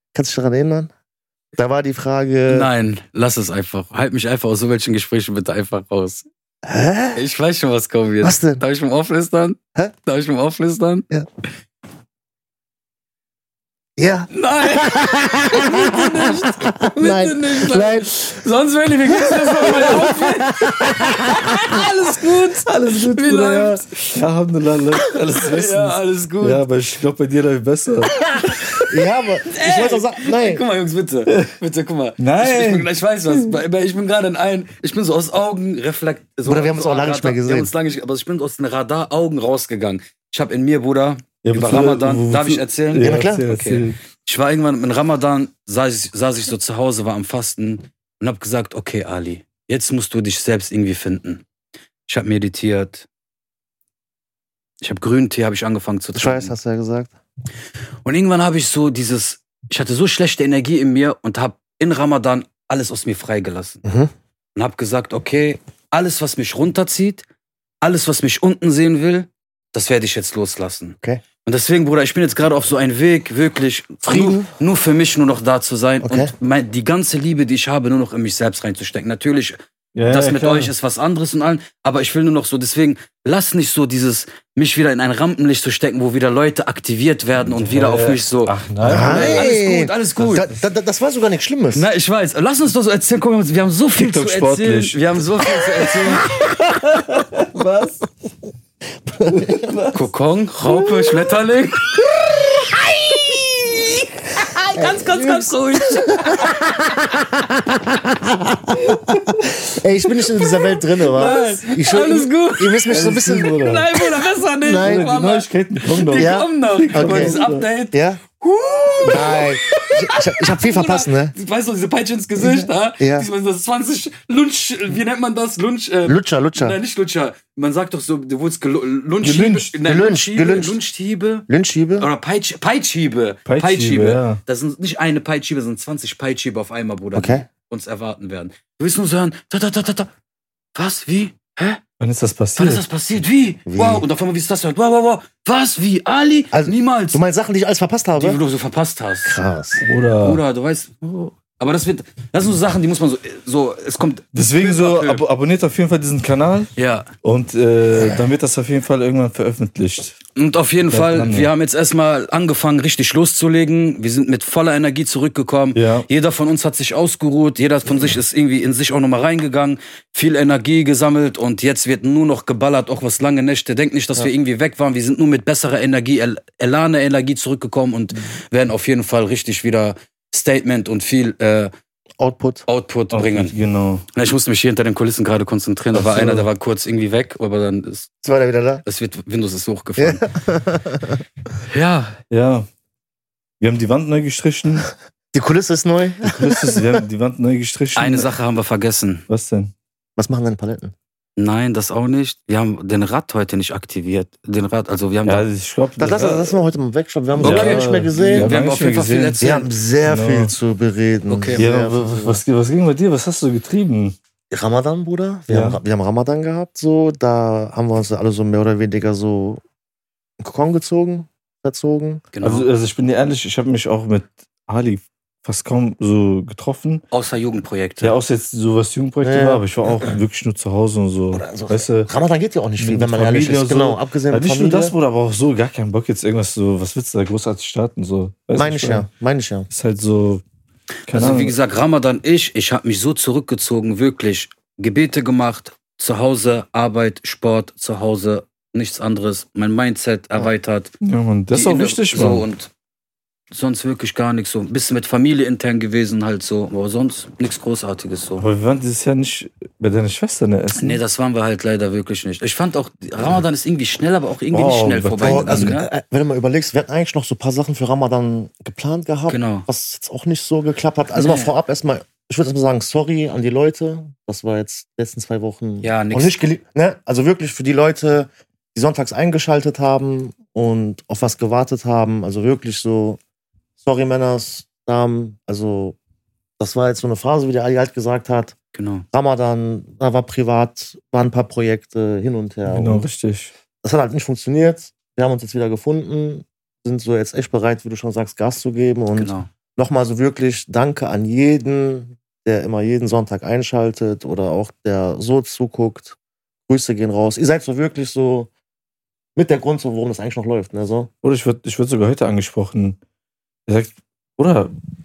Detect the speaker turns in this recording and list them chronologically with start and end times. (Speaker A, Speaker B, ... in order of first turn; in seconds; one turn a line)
Speaker A: 0.1-0.9
Speaker A: 1.6-2.7
Speaker B: 2.5-6.2
Speaker A: 6.6-7.2
Speaker B: 7.2-11.1
Speaker A: 8.2-8.6
Speaker A: 14.0-18.1
Speaker B: 14.3-24.2
Speaker A: 19.1-21.4
Speaker C: 22.6-28.8
Speaker B: 25.4-26.6
Speaker A: 28.8-30.6
Speaker B: 29.5-51.4
Speaker C: 31.3-31.5
Speaker C: 32.2-32.9
Speaker A: 36.4-37.7
Speaker C: 41.4-44.0
Speaker A: 43.0-43.5
Speaker B: 52.1-53.1
Speaker B: 54.8-56.5
Speaker A: 56.1-57.1
Speaker B: 58.0-63.8
Speaker A: 63.8-64.1
Speaker B: 64.6-67.2
Speaker B: 67.8-90.5
Speaker A: 74.1-74.5
Speaker A: 76.0-76.3
Speaker C: 79.9-80.7
Speaker C: 87.5-89.5
Speaker A: 88.8-91.9
Speaker B: 91.7-96.3
Speaker C: 94.0-95.0
Speaker C: 96.1-98.0
Speaker A: 99.1-99.7
Speaker C: 99.2-100.1
Speaker B: 99.9-106.6
Speaker A: 104.8-113.7
Speaker B: 111.0-131.5
Speaker C: 112.9-113.9
Speaker A: 114.6-115.2
Speaker C: 114.8-117.6
Speaker A: 116.1-118.2
Speaker A: 119.0-121.3
Speaker A: 122.4-123.3
Speaker A: 126.0-126.8
Speaker C: 129.2-129.8
Speaker A: 129.8-130.8
Speaker A: 131.5-132.1
Speaker B: 132.0-140.1
Speaker C: 133.4-134.4
Speaker A: 137.1-137.4
Speaker B: 140.8-141.8
Speaker C: 142.0-142.8
Speaker B: 142.6-147.2
Speaker A: 143.7-144.1
Speaker A: 146.5-148.4
Speaker B: 148.2-149.4
Speaker A: 149.2-149.8
Speaker C: 149.9-150.4
Speaker B: 150.2-155.2
Speaker C: 154.3-156.7
Speaker B: 156.8-157.1
Speaker C: 157.2-160.2
Speaker B: 160.4-181.7
Speaker C: 160.9-161.5
Speaker C: 165.8-166.1
Speaker A: 182.2-182.7
Speaker B: 182.7-183.6
Speaker C: 183.1-184.0
Speaker B: 184.1-188.1
Speaker C: 185.9-186.5
Speaker A: 188.2-188.8
Speaker B: 188.8-190.2
Speaker A: 190.0-191.2
Speaker B: 191.7-192.2
Speaker C: 192.3-192.7
Speaker C: 193.6-194.9
Speaker A: 195.3-197.0
Speaker C: 196.2-198.3
Speaker B: 197.9-199.2
Speaker C: 199.3-199.7
Speaker A: 200.2-200.9
Speaker B: 201.4-205.4
Speaker C: 205.2-206.6
Speaker A: 206.0-208.6
Speaker C: 207.4-209.4
Speaker B: 207.4-209.7
Speaker A: 209.4-212.4
Speaker C: 210.1-210.5
Speaker B: 211.3-211.7
Speaker C: 211.5-214.2
Speaker A: 214.5-219.6
Speaker C: 215.5-215.8
Speaker A: 220.4-222.2
Speaker B: 222.3-222.7
Speaker C: 222.4-227.0
Speaker B: 227.1-228.2
Speaker C: 228.0-232.1
Speaker A: 229.2-229.6
Speaker A: 231.3-234.9
Speaker C: 232.8-239.1
Speaker A: 238.6-239.7
Speaker C: 239.7-240.4
Speaker C: 241.1-241.6
Speaker B: 241.1-250.9
Speaker C: 251.0-252.4
Speaker B: 251.5-252.7
Speaker B: 253.5-258.4
Speaker C: 258.4-261.0
Speaker B: 260.8-265.9
Speaker C: 264.5-265.8
Speaker A: 265.2-283.2
Speaker B: 269.3-269.7
Speaker B: 271.1-271.5
Speaker B: 275.8-276.4
Speaker A: 283.8-286.0
Speaker A: 286.6-288.6
Speaker B: 288.7-289.1
Speaker A: 289.1-293.0
Speaker C: 292.7-293.5
Speaker A: 293.8-306.2
Speaker B: 299.1-299.5
Speaker A: 306.7-308.5
Speaker A: 309.4-311.1
Speaker C: 311.2-313.0
Speaker C: 313.7-314.7